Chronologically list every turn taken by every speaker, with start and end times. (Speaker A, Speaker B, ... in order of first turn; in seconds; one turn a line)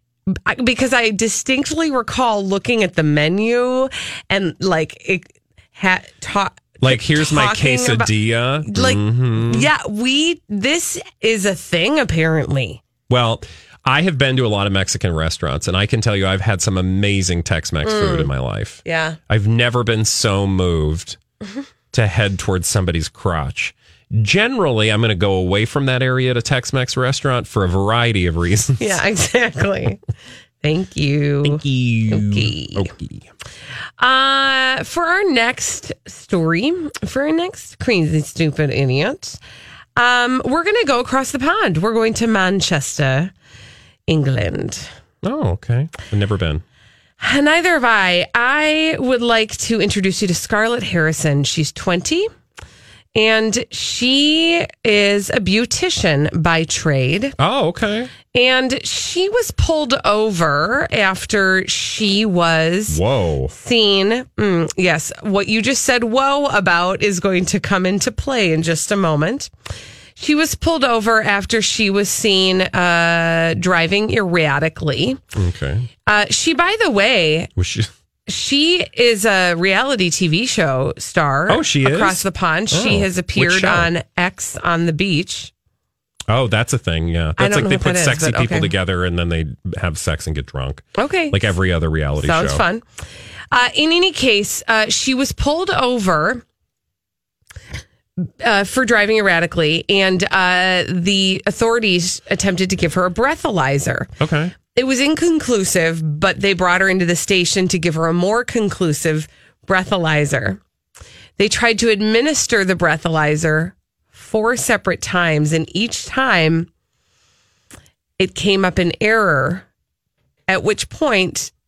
Speaker A: 0.3-8.1
Speaker B: 6.8-9.7
Speaker A: 8.6-12.8
Speaker B: 13.1-21.2
Speaker A: 17.8-18.3
Speaker A: 18.8-19.2
Speaker B: 21.9-29.0
Speaker A: 28.8-30.0
Speaker A: 30.6-32.9
Speaker B: 31.4-33.3
Speaker A: 34.0-39.4
Speaker A: 40.0-43.3
Speaker A: 44.1-44.9
Speaker B: 45.2-46.6
Speaker A: 47.2-52.3
Speaker A: 53.1-57.3
Speaker B: 57.4-58.1
Speaker A: 58.2-63.0
Speaker B: 62.9-63.5
Speaker A: 63.5-69.5
Speaker A: 70.2-75.2
Speaker B: 75.3-75.9
Speaker A: 76.0-77.5
Speaker B: 77.6-77.9
Speaker A: 78.3-85.5
Speaker B: 81.5-83.9
Speaker B: 86.3-92.6
Speaker A: 87.4-88.7
Speaker A: 91.0-91.5
Speaker A: 92.2-92.8
Speaker A: 93.5-96.4
Speaker A: 98.4-104.1
Speaker B: 104.2-104.5
Speaker A: 104.6-110.6
Speaker A: 111.4-116.7
Speaker A: 118.2-119.7
Speaker A: 120.5-121.5